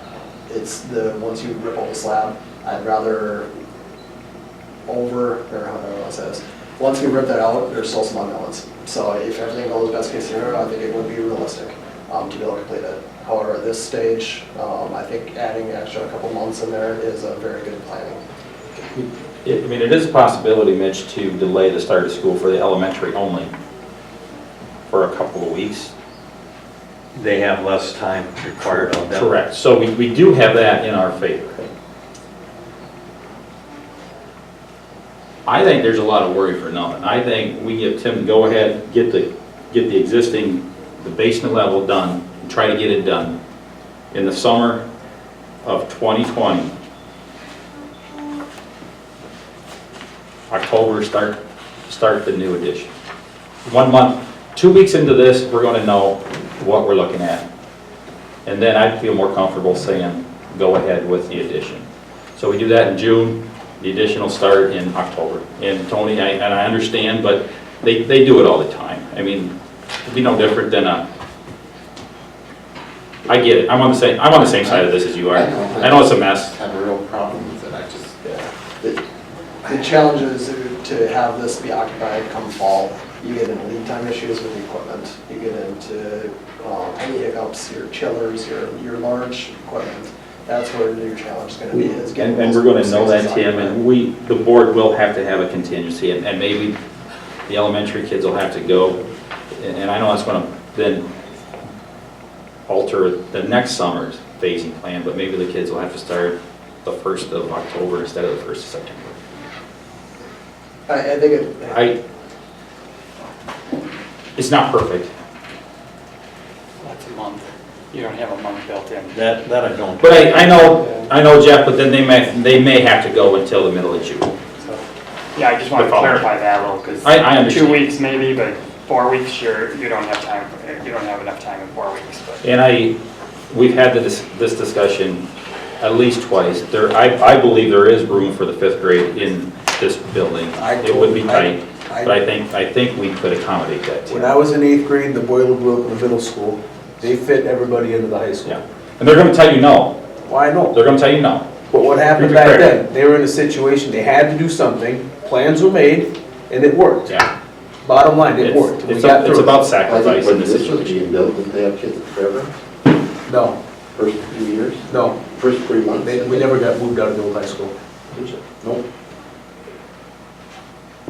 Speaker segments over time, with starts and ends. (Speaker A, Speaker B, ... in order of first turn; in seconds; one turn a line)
Speaker A: 0.5-3.5
Speaker A: 4.8-18.2
Speaker B: 18.8-23.5
Speaker B: 24.9-25.9
Speaker C: 27.1-29.3
Speaker B: 28.8-31.6
Speaker B: 35.5-43.4
Speaker B: 44.1-44.8
Speaker B: 45.6-46.7
Speaker B: 50.5-52.9
Speaker B: 53.7-57.5
Speaker B: 58.5-61.9
Speaker B: 62.4-69.5
Speaker B: 70.0-71.0
Speaker B: 73.3-76.5
Speaker D: 74.5-78.1
Speaker A: 78.2-79.0
Speaker A: 79.6-93.8
Speaker B: 91.7-96.7
Speaker B: 97.5-99.0
Speaker B: 99.5-101.0
Speaker B: 102.7-109.2
Speaker A: 110.9-111.8
Speaker B: 111.7-112.0
Speaker B: 114.4-115.1
Speaker E: 116.8-119.2
Speaker C: 119.1-120.6
Speaker B: 120.0-124.3
Speaker E: 125.3-132.4
Speaker B: 125.8-126.3
Speaker B: 127.0-127.9
Speaker B: 132.4-133.0
Speaker B: 133.5-135.3
Speaker B: 135.8-144.3
Speaker F: 140.6-142.1
Speaker F: 144.1-148.5
Speaker B: 148.4-150.0
Speaker F: 150.2-150.8
Speaker B: 150.7-151.5
Speaker F: 151.7-157.1
Speaker B: 152.1-152.8
Speaker F: 157.8-159.6
Speaker B: 158.4-161.0
Speaker D: 159.8-162.6
Speaker F: 163.3-163.6
Speaker D: 163.9-166.5
Speaker F: 164.9-165.2
Speaker F: 166.0-167.8
Speaker D: 168.1-168.8